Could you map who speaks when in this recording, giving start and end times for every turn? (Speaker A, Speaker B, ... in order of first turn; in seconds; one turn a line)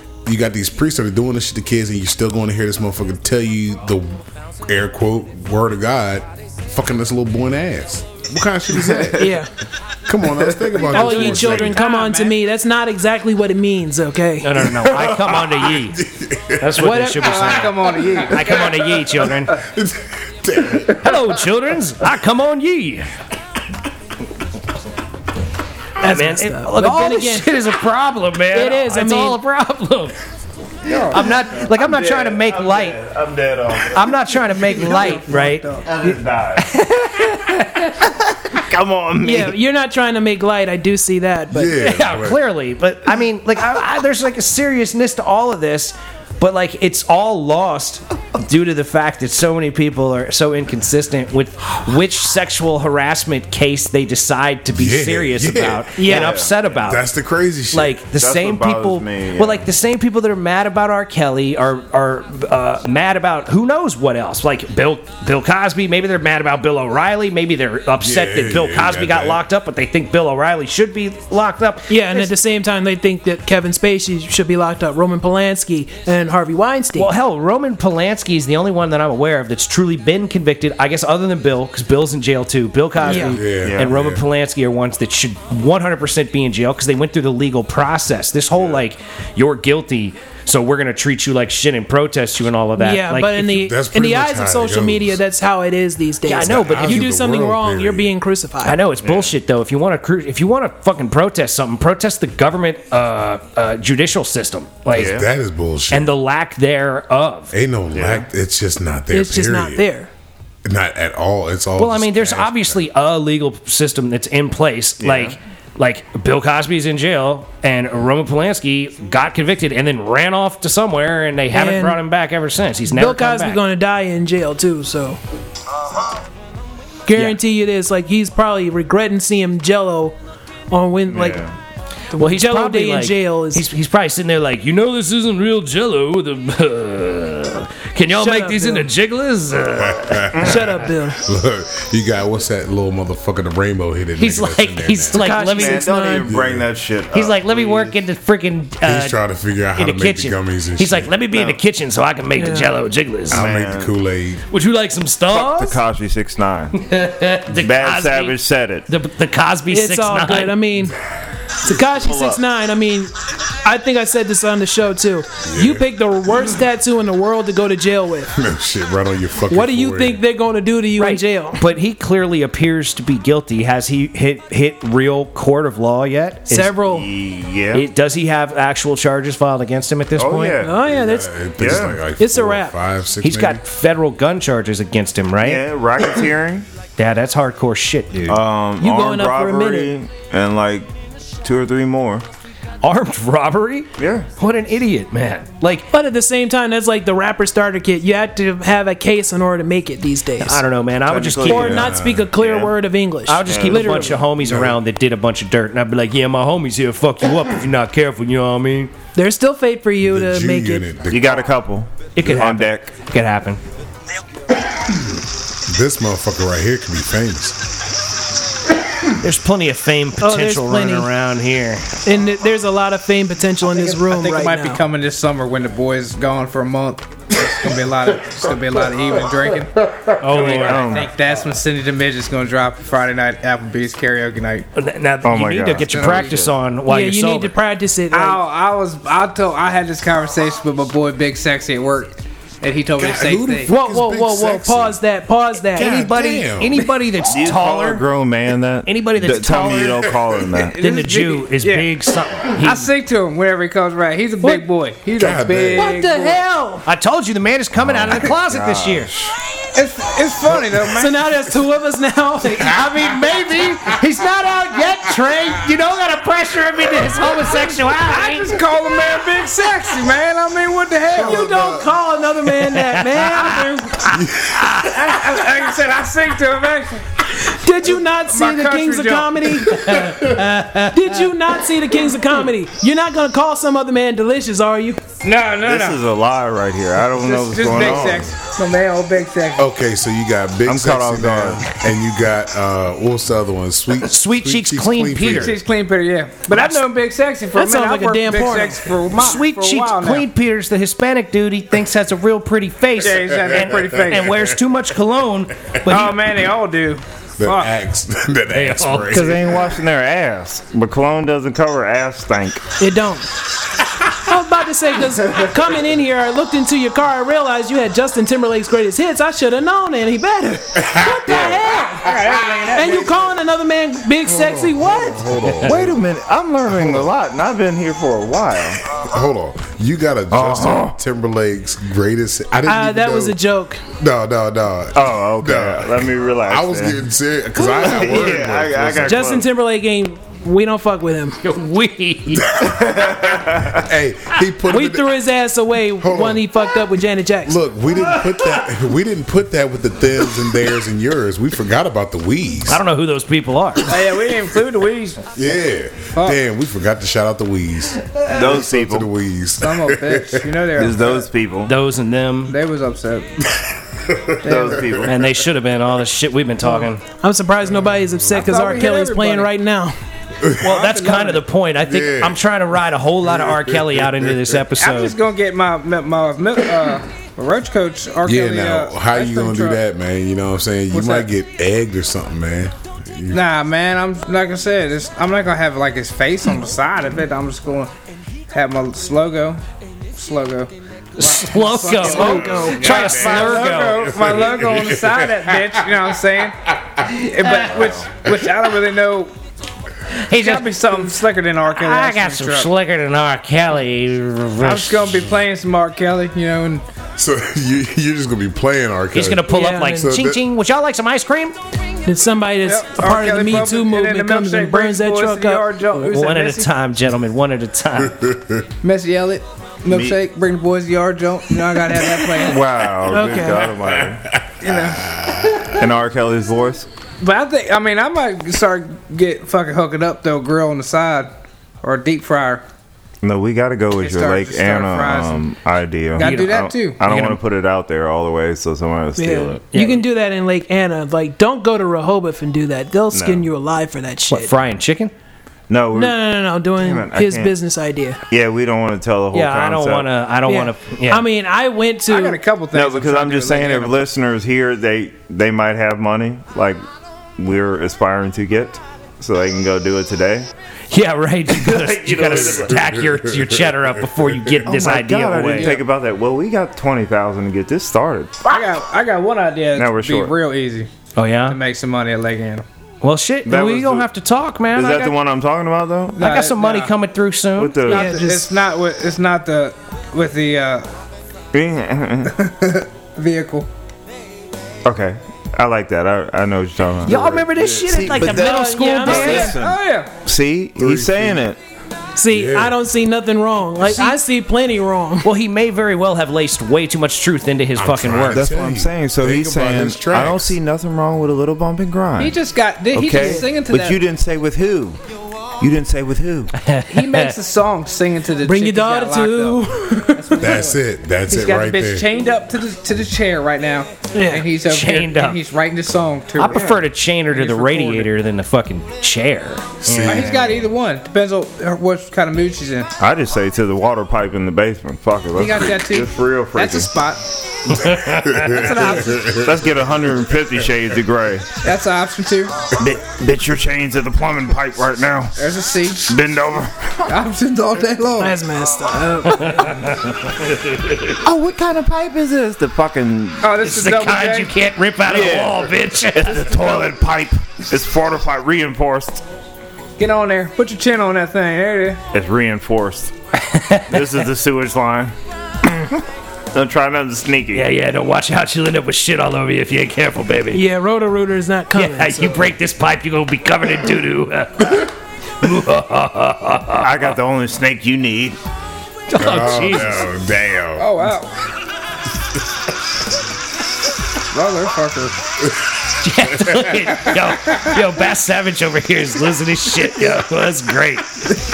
Speaker A: 0.2-9.4
Speaker B: 8.9-9.3
Speaker C: 9.2-9.5
Speaker A: 10.1-11.8
Speaker C: 10.8-14.7
Speaker D: 11.1-12.4
Speaker E: 14.4-16.0
Speaker A: 14.6-17.1
Speaker E: 16.6-19.6
Speaker C: 16.8-17.5
Speaker D: 17.2-18.7
Speaker A: 18.0-21.5
Speaker E: 20.9-23.1
Speaker C: 26.0-27.6
Speaker E: 26.0-30.2
Speaker C: 28.5-29.4
Speaker D: 30.9-31.4
Speaker E: 31.1-33.0
Speaker B: 31.7-34.4
Speaker E: 33.9-37.9
Speaker D: 34.6-35.9
Speaker B: 35.9-36.8
Speaker B: 38.0-39.6
Speaker C: 39.2-41.8
Speaker A: 41.5-42.4
Speaker E: 41.8-57.1
Speaker A: 54.7-56.0
Speaker C: 56.0-56.3
Speaker B: 56.1-56.6
Speaker A: 56.6-58.0
Speaker E: 57.7-72.3
Speaker B: 58.1-59.7
Speaker A: 68.0-69.4
Speaker C: 71.9-77.1
Speaker E: 77.0-93.6
Speaker C: 83.0-83.4
Speaker A: 83.2-84.2
Speaker B: 83.6-84.0
Speaker B: 88.5-88.8
Speaker C: 92.8-98.8
Speaker A: 93.5-95.2
Speaker E: 96.2-97.1
Speaker A: 96.4-98.2
Speaker E: 98.6-105.2
Speaker B: 99.0-99.3
Speaker A: 104.9-106.2
Speaker B: 105.0-105.3
Speaker E: 105.9-107.5
Speaker A: 107.5-109.9
Speaker B: 107.9-108.3
Speaker C: 109.1-110.1
Speaker A: 110.7-112.8
Speaker E: 111.8-123.6
Speaker B: 115.0-115.4
Speaker C: 121.5-122.0
Speaker C: 122.9-125.2
Speaker C: 127.1-130.2
Speaker C: 130.7-131.4
Speaker B: 131.1-131.5
Speaker C: 132.1-133.7
Speaker E: 132.2-140.3
Speaker C: 138.1-138.9
Speaker A: 139.7-145.2
Speaker B: 140.3-140.8
Speaker C: 140.4-141.2
Speaker E: 144.2-146.1
Speaker C: 145.1-146.2
Speaker B: 145.3-148.0
Speaker A: 146.2-146.7
Speaker E: 147.1-149.2
Speaker A: 148.8-151.1
Speaker E: 149.8-153.4
Speaker B: 151.3-151.6
Speaker C: 152.4-152.7
Speaker A: 153.3-154.4
Speaker B: 153.3-153.9
Speaker E: 154.5-155.8
Speaker B: 155.3-156.8
Speaker E: 156.8-158.4
Speaker B: 157.5-158.9
Speaker E: 158.9-160.6
Speaker C: 159.7-161.0
Speaker C: 161.6-168.3
Speaker B: 161.7-162.4
Speaker A: 165.4-165.9
Speaker A: 168.3-170.2
Speaker C: 169.5-171.7
Speaker E: 171.0-176.7
Speaker C: 176.5-177.1
Speaker B: 176.8-177.9
Speaker E: 177.7-180.6
Speaker B: 180.2-180.8
Speaker C: 180.6-181.4
Speaker A: 180.8-183.6
Speaker B: 181.6-182.0
Speaker C: 182.2-182.8
Speaker E: 183.2-185.6
Speaker B: 185.4-186.7
Speaker E: 187.0-188.4
Speaker B: 188.3-190.9
Speaker C: 188.8-189.9
Speaker B: 191.4-192.2
Speaker E: 192.8-195.9
Speaker B: 194.0-194.3
Speaker C: 195.9-200.6
Speaker E: 200.4-201.9
Speaker B: 201.1-202.8
Speaker C: 201.4-204.2
Speaker A: 201.7-202.3
Speaker E: 203.3-208.9
Speaker B: 203.5-204.2
Speaker A: 204.4-204.8
Speaker C: 209.2-210.9
Speaker A: 210.0-211.5
Speaker B: 211.1-212.9
Speaker E: 212.2-213.6
Speaker A: 215.7-217.6
Speaker E: 219.2-221.9
Speaker C: 220.2-221.1
Speaker C: 222.1-224.8
Speaker D: 223.7-229.8
Speaker E: 230.2-231.1
Speaker D: 230.3-234.7
Speaker B: 230.4-231.1
Speaker E: 234.8-237.5
Speaker B: 235.2-236.5
Speaker D: 235.8-236.4
Speaker C: 236.9-238.4
Speaker D: 238.1-243.7
Speaker A: 243.0-245.0
Speaker C: 243.7-246.0
Speaker A: 245.7-246.9
Speaker E: 245.8-248.0
Speaker B: 247.3-250.8
Speaker E: 248.9-250.1
Speaker A: 250.1-250.4
Speaker D: 250.7-251.9
Speaker E: 250.8-252.9
Speaker D: 252.5-256.4
Speaker A: 255.2-255.9
Speaker C: 255.8-256.9
Speaker E: 256.9-259.1
Speaker B: 257.9-259.3
Speaker D: 259.7-261.2
Speaker A: 260.5-260.8
Speaker C: 260.9-262.8
Speaker E: 262.6-268.6
Speaker A: 263.2-264.0
Speaker D: 268.0-271.5
Speaker A: 271.1-271.9
Speaker C: 271.1-274.2
Speaker E: 272.6-273.7
Speaker A: 274.1-275.3
Speaker E: 274.6-274.9
Speaker D: 274.8-277.0
Speaker C: 277.3-285.1
Speaker D: 278.2-279.4
Speaker E: 279.7-281.1
Speaker D: 285.2-286.0
Speaker B: 285.6-288.3
Speaker D: 287.2-289.7
Speaker A: 287.8-288.3
Speaker A: 289.6-295.6
Speaker B: 290.7-291.6
Speaker E: 294.0-295.6
Speaker D: 295.3-300.3
Speaker E: 296.5-296.9
Speaker C: 297.5-298.9
Speaker E: 299.1-306.3
Speaker D: 303.0-304.4
Speaker A: 303.8-304.5
Speaker D: 305.9-307.7
Speaker A: 307.4-309.8
Speaker E: 308.5-309.3
Speaker B: 309.1-312.6
Speaker C: 312.8-313.3
Speaker C: 314.1-322.2
Speaker A: 320.8-322.6
Speaker B: 321.3-321.7
Speaker D: 321.9-323.3
Speaker C: 322.7-325.5
Speaker A: 324.2-326.0
Speaker B: 325.6-328.8
Speaker A: 328.9-333.4
Speaker B: 330.3-331.0
Speaker C: 332.7-333.8
Speaker A: 334.0-339.4
Speaker B: 334.9-337.0
Speaker B: 337.7-339.5
Speaker C: 339.1-341.4
Speaker E: 341.4-342.6
Speaker A: 342.4-345.2
Speaker B: 342.7-343.9
Speaker C: 344.7-347.6
Speaker A: 346.0-346.6
Speaker A: 347.4-352.8
Speaker E: 352.7-354.0
Speaker D: 353.9-355.2
Speaker A: 355.4-360.5
Speaker B: 358.3-359.1
Speaker D: 359.6-361.3
Speaker B: 360.8-361.7
Speaker E: 361.7-362.6
Speaker D: 362.5-363.3
Speaker A: 363.5-365.0
Speaker D: 364.4-364.9
Speaker B: 364.4-365.3
Speaker E: 365.0-367.0
Speaker C: 366.7-369.9
Speaker A: 367.6-368.3
Speaker D: 368.3-369.5
Speaker A: 370.4-370.7
Speaker E: 370.6-375.2
Speaker D: 370.6-371.5
Speaker A: 371.8-372.4
Speaker A: 373.2-374.7
Speaker D: 374.8-379.8
Speaker A: 378.2-383.4
Speaker D: 380.9-381.3
Speaker D: 383.3-387.9
Speaker D: 388.5-389.6
Speaker D: 390.1-399.3
Speaker E: 391.2-394.1
Speaker C: 391.9-393.2
Speaker B: 392.2-393.4
Speaker A: 392.9-396.0
Speaker E: 400.1-401.1
Speaker D: 400.3-402.7
Speaker E: 401.7-405.2
Speaker D: 404.6-406.8
Speaker A: 407.2-410.4
Speaker E: 409.1-411.6
Speaker C: 409.5-410.1
Speaker C: 412.1-415.8
Speaker D: 412.6-416.7
Speaker E: 416.0-418.2
Speaker A: 418.0-418.7
Speaker D: 418.8-422.6
Speaker B: 419.9-420.2
Speaker B: 422.4-424.3
Speaker C: 423.1-423.7
Speaker A: 423.8-425.9
Speaker D: 424.6-425.1
Speaker B: 425.7-426.9
Speaker D: 427.2-432.6
Speaker B: 433.2-439.6
Speaker D: 434.0-435.4
Speaker D: 436.2-437.0
Speaker E: 436.2-437.4
Speaker C: 439.2-444.5
Speaker E: 439.7-440.0
Speaker B: 443.1-443.5
Speaker E: 444.3-445.1
Speaker B: 445.7-447.6
Speaker C: 445.9-448.2
Speaker B: 448.3-450.1
Speaker E: 449.3-451.3
Speaker C: 450.5-452.4
Speaker D: 452.1-454.0
Speaker B: 452.7-456.8
Speaker B: 457.4-460.5
Speaker E: 460.9-465.8
Speaker B: 461.5-462.8
Speaker A: 462.3-464.6
Speaker B: 464.7-468.5
Speaker D: 465.6-465.8
Speaker D: 468.4-470.9
Speaker B: 469.8-470.4
Speaker E: 471.2-471.6
Speaker D: 471.5-472.6
Speaker E: 473.0-475.1
Speaker B: 473.4-474.1
Speaker B: 474.7-476.2
Speaker D: 476.2-476.9
Speaker E: 476.2-477.9
Speaker B: 477.6-478.1
Speaker C: 477.9-478.5
Speaker D: 477.9-480.9
Speaker B: 481.5-482.4
Speaker D: 482.3-483.7
Speaker B: 484.9-491.6
Speaker E: 487.1-489.5
Speaker A: 487.1-488.2
Speaker C: 488.1-489.6
Speaker D: 489.1-490.1
Speaker A: 490.8-491.4
Speaker C: 492.2-495.3
Speaker A: 492.3-492.8
Speaker E: 495.2-498.4
Speaker A: 497.8-500.6
Speaker B: 498.2-502.4
Speaker D: 502.2-504.0
Speaker B: 502.9-505.0
Speaker C: 503.1-503.5
Speaker B: 505.6-506.6
Speaker E: 506.6-507.3
Speaker D: 506.9-518.1
Speaker C: 508.4-510.6
Speaker A: 510.4-512.1
Speaker C: 514.1-514.5
Speaker E: 514.6-515.4
Speaker E: 516.4-520.5
Speaker A: 519.8-520.5
Speaker D: 520.0-522.9
Speaker B: 523.0-526.9
Speaker D: 525.4-527.2
Speaker E: 527.7-528.7
Speaker A: 528.0-529.9
Speaker D: 528.5-529.4
Speaker B: 529.2-531.6
Speaker D: 531.6-532.5
Speaker B: 532.8-535.3
Speaker D: 535.4-536.1
Speaker B: 536.0-537.1
Speaker D: 537.1-538.4
Speaker C: 538.2-539.9
Speaker E: 539.5-541.1
Speaker B: 541.2-543.5
Speaker D: 543.4-544.6
Speaker E: 543.6-546.7
Speaker B: 545.0-549.2
Speaker D: 550.0-552.0
Speaker B: 552.1-553.1
Speaker E: 553.4-554.0
Speaker B: 553.9-555.1
Speaker B: 556.5-557.7
Speaker E: 557.5-560.6
Speaker C: 560.5-562.5
Speaker E: 561.8-567.1
Speaker B: 566.8-568.4
Speaker E: 569.1-570.1
Speaker A: 569.2-571.1
Speaker D: 570.8-571.3
Speaker D: 574.3-575.1
Speaker E: 576.0-581.3
Speaker A: 576.3-576.7